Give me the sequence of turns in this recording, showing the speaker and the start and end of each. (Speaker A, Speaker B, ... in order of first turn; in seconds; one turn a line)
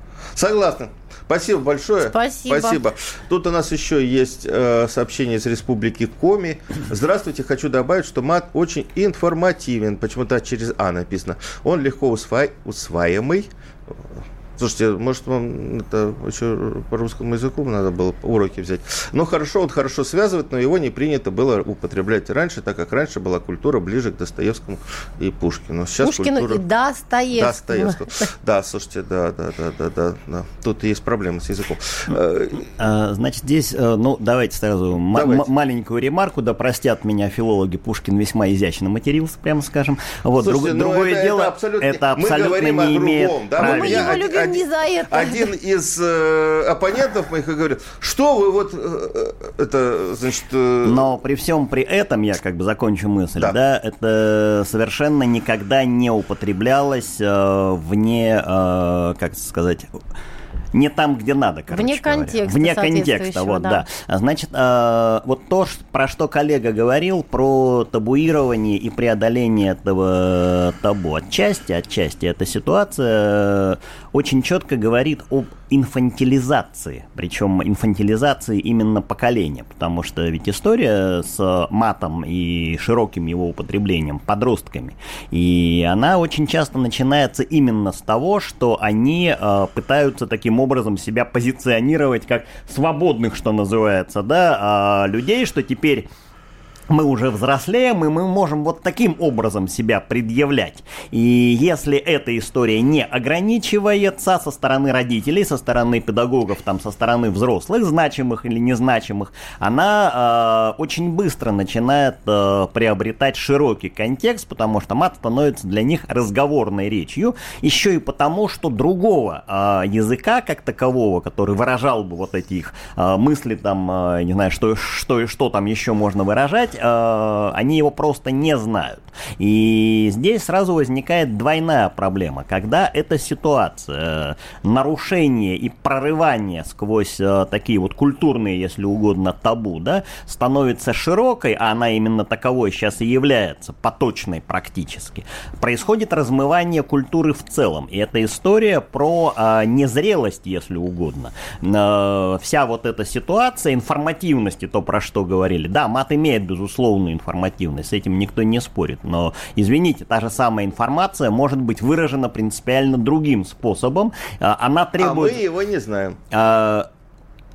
Speaker A: 0.3-13.5
Speaker B: 2.1-2.8
Speaker A: 14.6-26.6
Speaker B: 26.0-28.0
Speaker A: 27.3-32.7
Speaker C: 32.8-44.2
Speaker A: 35.1-35.5
Speaker A: 40.4-51.1
Speaker B: 43.6-45.5
Speaker C: 50.9-59.9
Speaker C: 60.7-96.1
Speaker B: 61.7-63.8
Speaker C: 96.9-165.4
Speaker A: 165.0-166.2
Speaker C: 166.3-166.9